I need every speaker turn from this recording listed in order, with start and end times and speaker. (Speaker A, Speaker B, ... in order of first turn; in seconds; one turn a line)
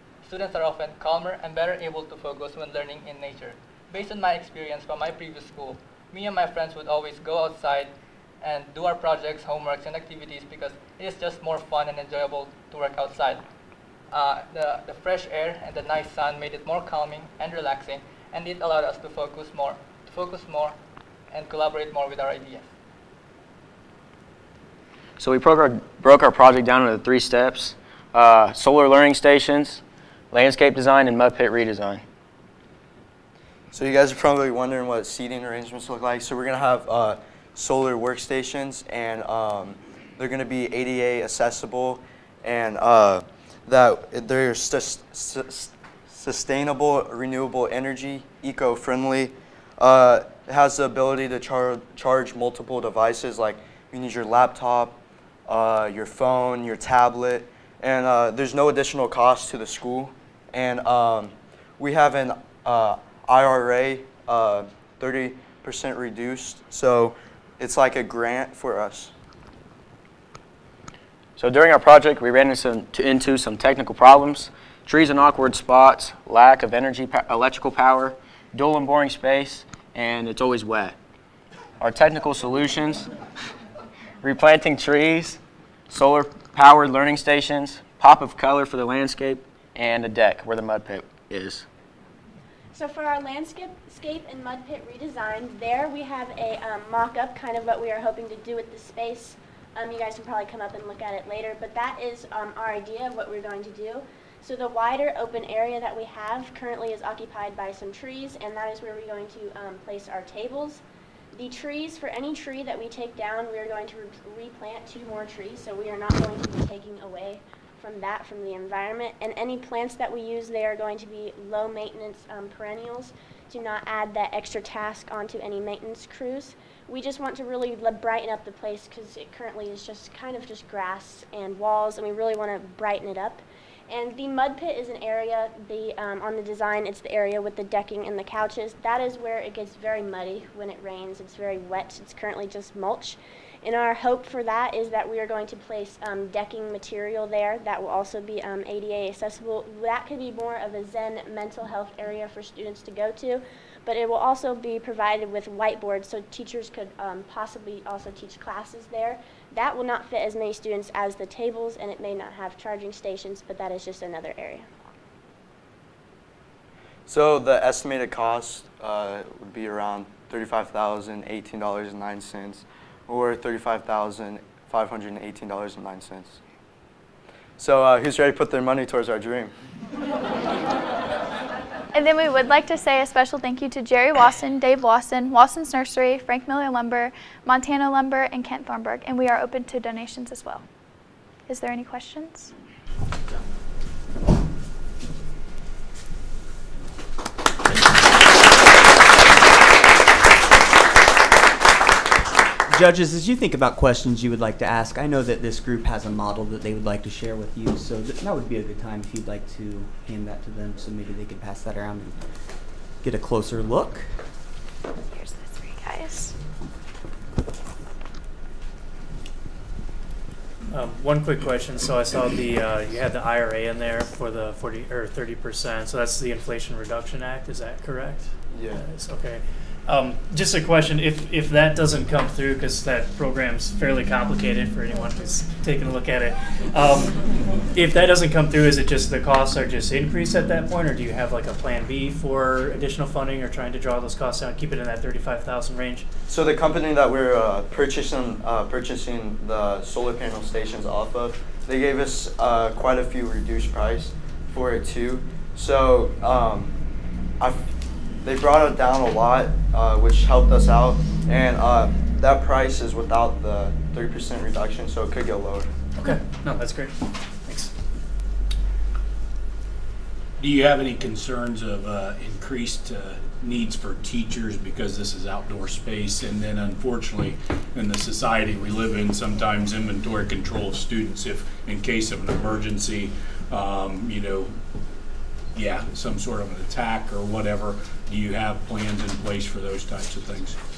Speaker A: 0.2-13.4
Speaker A: 14.1-20.8
Speaker A: 21.3-22.7
Speaker B: 25.2-32.0
Speaker C: 33.7-69.1
Speaker B: 71.4-81.0
Speaker B: 81.8-83.1
Speaker B: 84.2-91.7
Speaker D: 92.7-110.8
Speaker D: 111.3-164.7
Speaker C: 167.1-176.4
Speaker C: 177.6-179.5
Speaker E: 181.9-190.7
Speaker E: 191.5-192.5
Speaker F: 202.7-212.2
Speaker F: 213.0-214.1
Speaker E: 215.1-216.3
Speaker G: 220.7-237.2
Speaker C: 228.5-228.8
Speaker G: 237.7-246.1
Speaker C: 246.3-256.8
Speaker C: 257.4-257.7
Speaker C: 258.2-265.7
Speaker G: 266.0-267.7
Speaker H: 270.4-284.6
Speaker H: 285.5-290.6